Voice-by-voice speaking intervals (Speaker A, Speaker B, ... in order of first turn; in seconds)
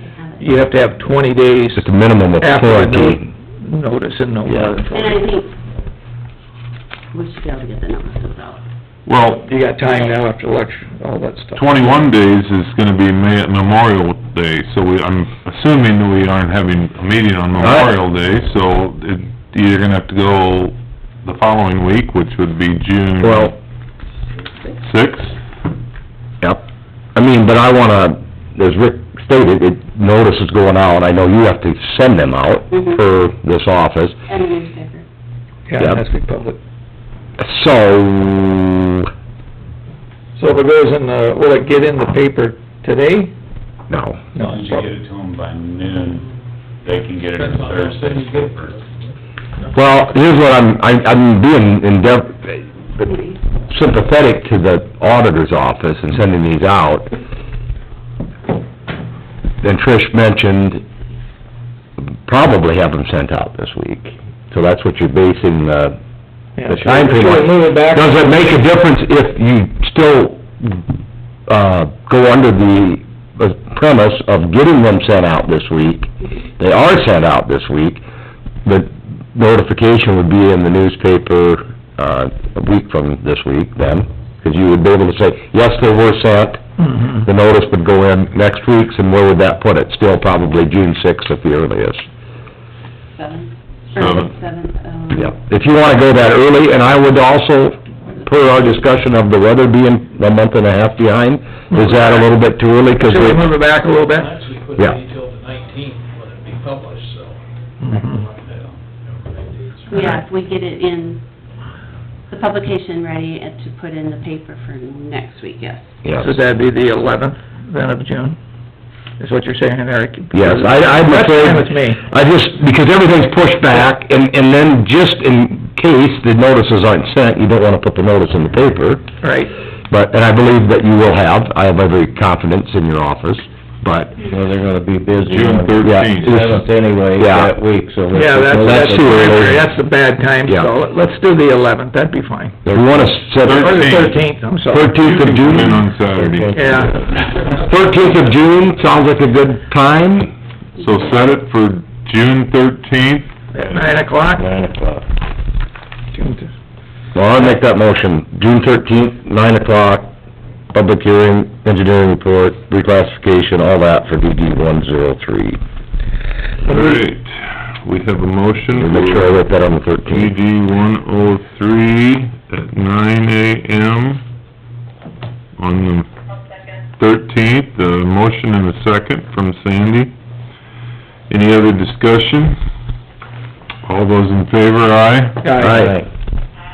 Speaker A: 0.2-0.6, 4.9-5.5, 7.1-8.6, 32.7-33.0, 34.3-35.0, 53.0-53.4, 93.1-95.3, 109.9-111.2, 112.3-115.9
Speaker B: 0.4-5.2, 9.4-12.0, 35.7-36.6, 40.4-43.3, 44.3-44.9, 66.6-68.3, 86.8-87.1, 101.7-102.3, 103.0-104.4, 107.8-108.2, 116.2-118.4, 119.2-122.0, 129.2-129.5, 138.1-142.6, 143.5-145.2, 146.5-147.0, 153.5-154.5, 156.1-156.5, 166.7-167.0, 185.4-185.9
Speaker C: 1.8-3.2, 17.6-17.9, 23.2-23.5, 26.4-34.1, 37.4-39.1, 43.9-44.2, 49.7-53.1, 53.7-57.1, 59.6-60.8, 62.2-66.0, 66.7-70.8, 71.5-78.0, 78.6-92.0, 95.1-103.6, 116.0-116.3, 120.3-129.1, 129.9-134.2, 135.8-136.6, 137.1-137.5, 138.6-139.6, 142.7-143.7, 144.7-145.9, 147.5-150.3, 157.1-160.1, 160.7-165.6, 168.8-170.3, 185.6-185.9
Speaker D: 9.1-9.4, 11.5-23.6, 24.8-25.4, 94.0-94.3, 135.2-136.4, 143.3-144.2, 145.0-146.7, 150.8-153.3, 166.7-169.4, 170.0-174.2, 175.6-176.1, 177.0-180.1, 181.3-182.6, 183.8-185.5
Speaker E: 44.4-46.3, 46.8-48.8, 108.4-108.8
Speaker F: 47.3-49.1, 103.8-110.2
Speaker G: 134.2-139.6, 145.9-147.5, 154.3-155.0, 185.6-186.1